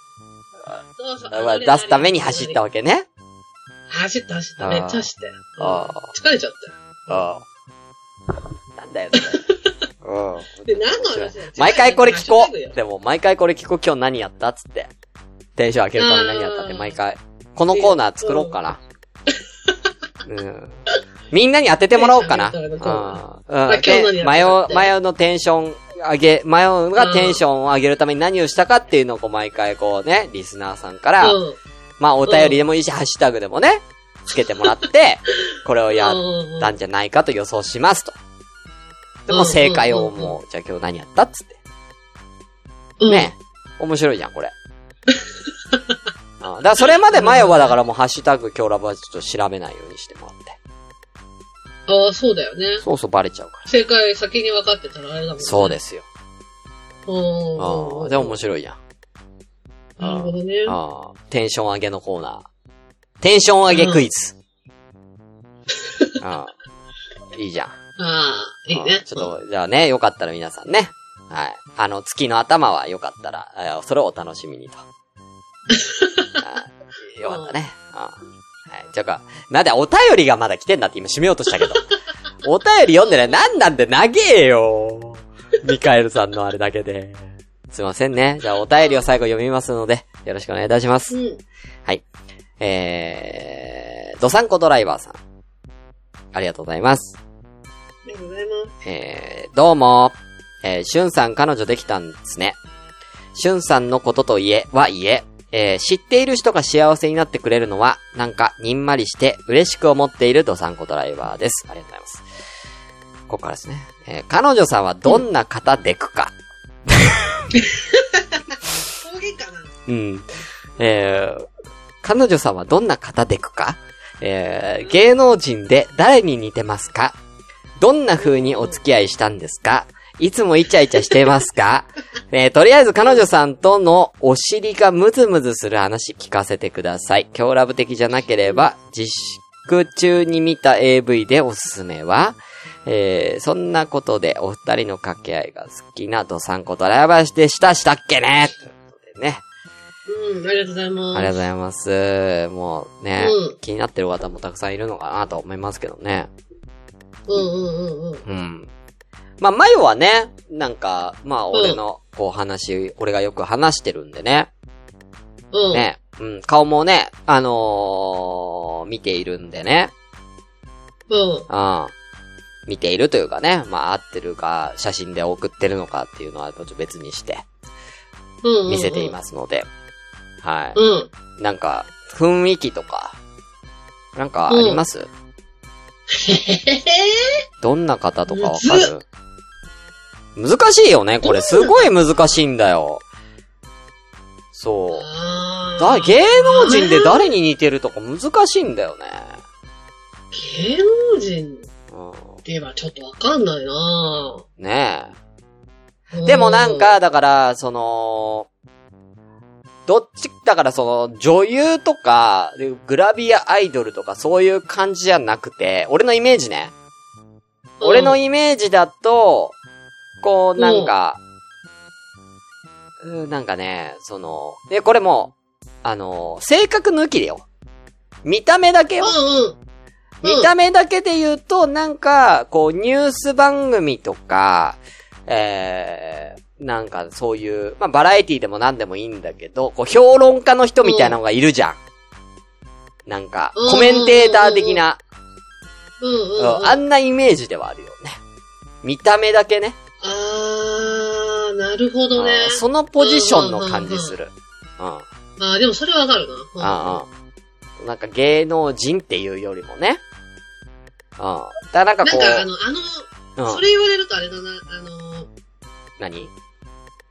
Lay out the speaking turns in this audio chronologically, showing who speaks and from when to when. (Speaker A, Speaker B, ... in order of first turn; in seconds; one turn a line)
Speaker A: 1.0-2.6
Speaker B: 1.3-3.1
Speaker A: 3.9-7.2
Speaker B: 4.6-5.1
Speaker B: 5.6-6.1
Speaker B: 7.1-7.4
Speaker B: 8.7-9.4
Speaker A: 9.1-9.7
Speaker B: 10.0-14.9
Speaker A: 10.7-12.8
Speaker B: 15.6-18.8
Speaker A: 16.0-16.9
Speaker A: 17.7-18.5
Speaker B: 20.2-20.8
Speaker B: 21.3-31.4
Speaker A: 21.9-24.9
Speaker A: 27.0-27.4
Speaker A: 31.2-31.6
Speaker B: 32.0-38.1
Speaker A: 32.2-32.6
Speaker A: 35.9-36.7
Speaker B: 39.3-41.6
Speaker A: 39.3-40.4
Speaker A: 43.0-43.3
Speaker B: 43.1-44.5
Speaker B: 46.4-50.6
Speaker A: 47.1-47.7
Speaker A: 51.9-52.8
Speaker B: 52.8-53.7
Speaker A: 53.7-55.8
Speaker B: 55.4-56.0
Speaker A: 57.1-58.4
Speaker B: 57.6-58.8
Speaker A: 60.0-60.8
Speaker B: 60.0-62.5
Speaker B: 63.2-64.3
Speaker A: 63.7-64.1
Speaker B: 66.2-66.5
Speaker B: 67.3-67.7
Speaker A: 68.0-69.3
Speaker B: 68.7-74.8
Speaker A: 75.7-76.4
Speaker B: 76.4-78.2
Speaker A: 77.2-77.5
Speaker B: 78.7-81.9
Speaker B: 82.4-91.2
Speaker A: 91.1-91.4
Speaker B: 92.6-95.2
Speaker B: 96.3-97.2
Speaker A: 98.0-98.7
Speaker B: 98.8-102.6
Speaker B: 103.3-112.2
Speaker B: 113.3-116.3
Speaker B: 116.9-117.4
Speaker A: 117.5-119.7
Speaker B: 119.9-121.5
Speaker B: 122.0-127.2
Speaker B: 127.8-149.4
Speaker A: 128.2-128.8
Speaker A: 150.1-151.3
Speaker B: 151.1-156.3
Speaker A: 153.2-153.6
Speaker A: 157.3-158.2
Speaker B: 158.2-158.7
Speaker B: 159.4-164.5
Speaker A: 161.5-161.8
Speaker A: 165.5-165.8
Speaker B: 165.7-169.9
Speaker A: 171.1-171.5
Speaker B: 171.5-171.9
Speaker B: 172.7-177.4
Speaker A: 178.4-179.1
Speaker B: 178.7-179.7
Speaker B: 180.4-180.8
Speaker A: 180.7-181.1
Speaker B: 181.4-183.2
Speaker B: 184.2-185.1
Speaker A: 184.5-184.8
Speaker A: 186.1-187.4
Speaker B: 187.6-189.0
Speaker A: 188.3-188.9
Speaker B: 190.3-193.0
Speaker A: 191.2-191.9
Speaker B: 194.5-195.1
Speaker A: 194.9-197.3
Speaker B: 195.8-199.4
Speaker A: 200.3-201.7
Speaker B: 201.9-202.4
Speaker A: 202.4-204.4
Speaker B: 204.6-205.1
Speaker A: 206.1-206.9
Speaker B: 206.2-208.5
Speaker B: 209.9-216.7
Speaker A: 217.8-218.2
Speaker B: 217.8-219.5
Speaker B: 220.2-221.2
Speaker A: 220.6-220.9
Speaker B: 223.0-227.4
Speaker B: 228.2-229.2
Speaker A: 229.0-229.6
Speaker A: 230.2-230.5
Speaker B: 230.2-241.8
Speaker A: 240.8-241.2
Speaker B: 243.1-245.0
Speaker A: 243.6-244.8
Speaker A: 246.0-246.8
Speaker B: 246.4-248.2
Speaker B: 248.8-249.8
Speaker A: 250.0-254.1
Speaker B: 252.1-255.0
Speaker A: 255.4-257.0
Speaker B: 256.6-257.1
Speaker B: 257.8-260.0
Speaker B: 261.2-262.4
Speaker A: 262.0-265.3
Speaker B: 263.4-263.6
Speaker B: 266.0-266.3